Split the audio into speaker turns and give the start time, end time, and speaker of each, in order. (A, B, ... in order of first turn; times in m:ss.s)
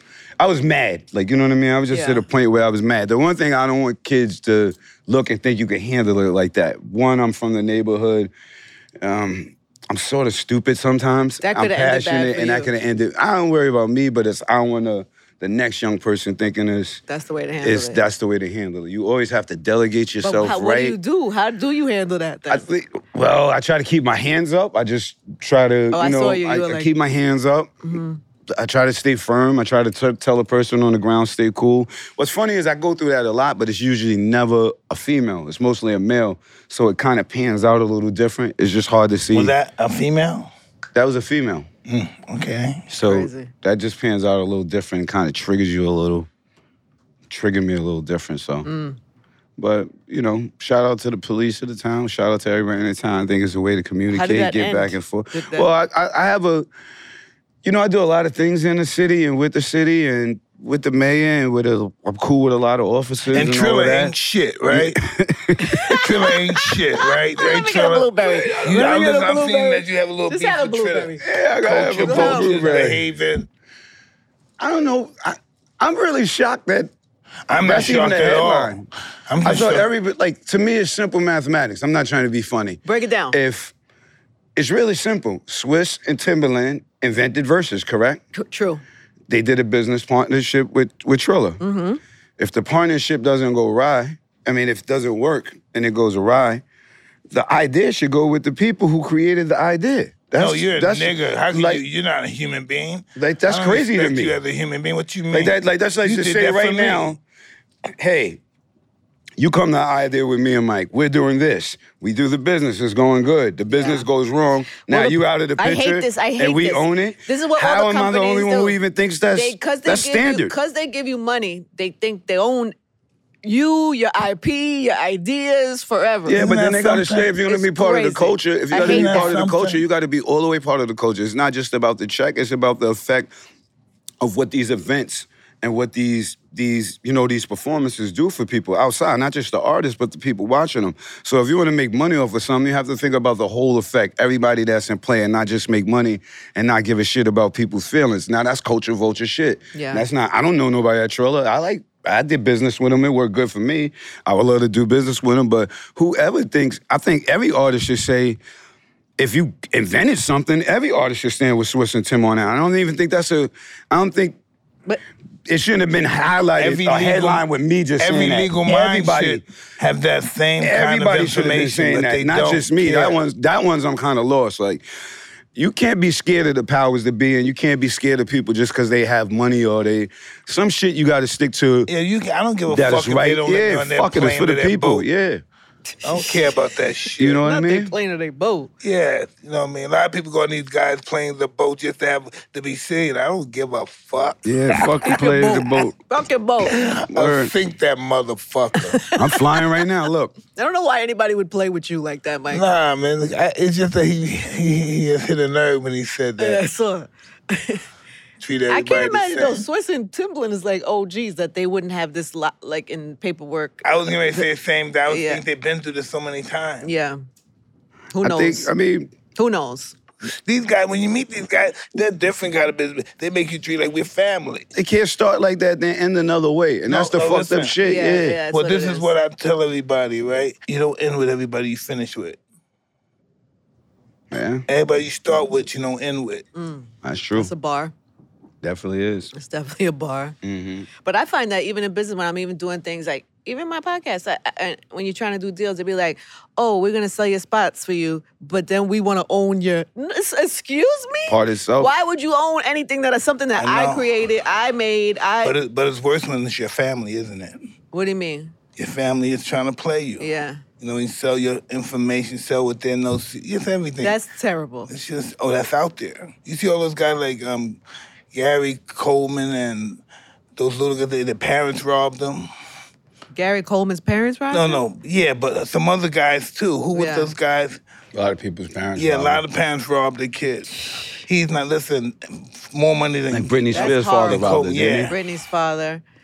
0:00.4-0:08.3 A
0:01.9-0:02.2 B
0:09.0-0:17.0 A
0:11.4-0:12.7 B
0:17.1-0:18.0 B
0:17.6-0:21.0 A
0:20.2-0:22.6 B
0:22.5-0:28.0 A
0:25.9-0:26.9 B
0:27.9-0:28.2 B
0:28.5-0:39.5 A
0:39.3-0:40.5 C
0:40.9-0:41.7 A
0:41.9-0:42.9 C
0:42.9-0:46.3 A
0:43.0-0:43.5 B
0:47.3-0:48.7 A
0:48.6-0:49.0 B
0:49.6-0:56.7 A
0:54.1-0:55.7 B
0:57.6-1:04.2 A
1:03.3-1:05.0 C
1:04.7-1:06.1 A
1:05.7-1:06.1 B
1:06.0-1:08.1 C
1:07.0-1:11.2 B
1:08.2-1:08.8 A
1:08.6-1:13.5 C
1:11.2-1:13.0 A
1:12.0-1:12.5 B
1:14.6-1:16.9 A
1:17.5-1:19.9 C
1:17.5-1:18.9 A
1:19.4-1:22.8 A
1:22.8-1:23.4 B
1:23.3-1:23.7 A
1:24.6-1:28.2 A
1:28.3-1:28.8 B
1:29.3-1:31.6 A
1:31.6-1:32.0 B
1:32.4-1:36.6 A
1:37.3-1:41.8 A
1:40.4-1:47.2 C
1:43.2-1:44.4 A
1:45.3-1:47.2 A
1:48.0-1:48.4 A
1:49.4-2:00.5 A
1:53.7-1:54.1 B
1:54.9-1:58.8 B
1:59.3-2:02.8 B
2:03.4-2:06.4 B
2:06.2-2:13.3 A
2:06.3-2:07.3 C
2:07.4-2:09.3 B
2:08.8-2:09.8 C
2:14.2-2:38.4 A
2:29.7-2:30.0 B
2:39.2-2:44.4 A
2:45.5-2:49.4 A
2:46.6-2:47.4 C
2:48.0-2:53.2 C
2:50.6-2:54.8 A
2:55.6-3:01.9 A
3:01.9-3:05.0 C
3:02.7-3:05.4 A
3:06.0-3:07.4 C
3:06.1-3:06.5 B
3:07.2-3:07.9 A
3:07.4-3:08.7 B
3:08.8-3:15.0 C
3:14.4-3:16.0 A
3:15.0-3:16.8 B
3:16.7-3:19.0 C
3:17.1-3:17.5 A
3:18.8-3:19.8 B
3:19.2-3:20.3 A
3:20.5-3:22.6 B
3:22.5-3:26.6 C
3:26.4-3:27.8 B
3:28.4-3:29.6 C
3:28.7-3:34.5 B
3:33.8-3:36.9 C
3:35.1-3:35.4 B
3:36.8-3:37.2 B
3:38.1-3:38.7 B
3:38.2-3:39.1 A
3:39.4-3:40.0 B
3:40.2-3:44.7 C
3:44.7-3:48.4 A
3:46.9-3:47.8 C
3:47.8-3:49.1 B
3:48.5-3:52.4 C
3:54.3-3:54.6 A
3:54.7-3:56.4 C
3:56.6-3:57.9 B
3:57.0-3:57.5 A
3:58.6-3:59.3 A
3:59.4-4:00.4 B
4:00.4-4:00.9 A
4:01.0-4:15.6 B
4:11.3-4:11.9 A
4:13.6-4:14.1 C
4:15.4-4:17.6 C
4:17.9-4:18.5 B
4:18.8-4:20.3 C
4:20.2-4:20.6 B
4:20.8-4:24.2 C
4:24.0-4:24.9 B
4:24.9-4:27.8 C
4:28.3-4:30.0 C
4:30.6-4:32.5 C
4:33.3-4:34.8 B
4:34.5-4:37.8 C
4:36.9-4:37.3 B
4:38.1-4:39.4 A
4:39.0-4:45.2 C
4:43.3-4:45.2 A
4:43.7-4:46.0 B